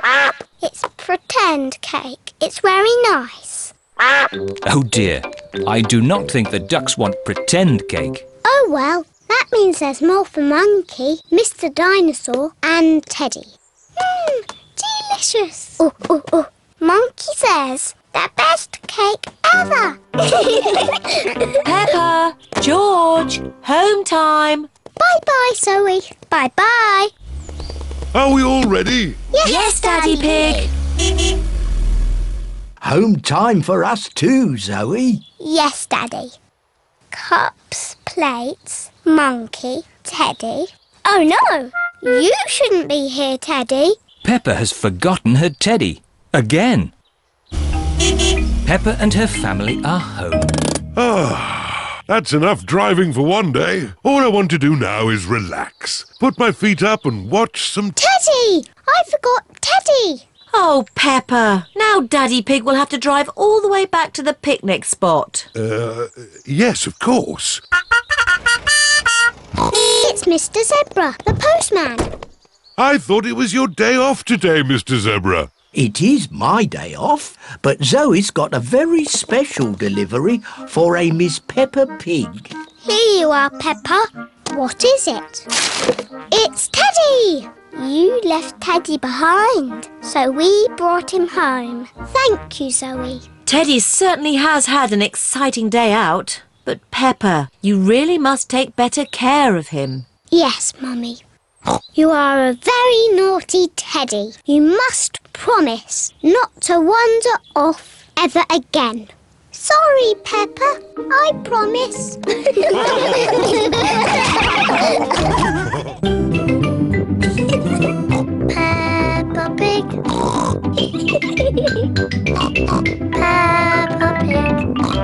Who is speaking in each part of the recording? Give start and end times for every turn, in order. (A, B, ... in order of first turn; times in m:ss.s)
0:00.6-0:03.7 A
0:04.6-0:08.2 B
0:08.4-0:21.5 A
0:21.6-0:24.7 C
0:25.0-0:27.1 A
0:28.1-0:29.2 D
0:29.3-0:30.7 A
0:29.4-0:30.7 C
0:32.8-0:35.2 E
0:35.4-0:36.4 A
0:37.1-0:44.0 A
0:44.2-0:46.9 B
0:48.6-0:50.5 B
0:50.9-0:58.0 D
0:58.0-1:00.2 A
1:00.5-1:05.5 C
1:05.5-1:07.6 D
1:09.8-1:12.1 A
1:12.8-1:15.5 D
1:15.7-1:22.5 E
1:22.8-1:25.5 A
1:26.3-1:33.3 A
1:33.4-1:40.1 C
1:40.3-1:41.2 A
1:42.0-1:54.6 A
1:58.5-2:00.0 A
2:03.1-2:04.6 A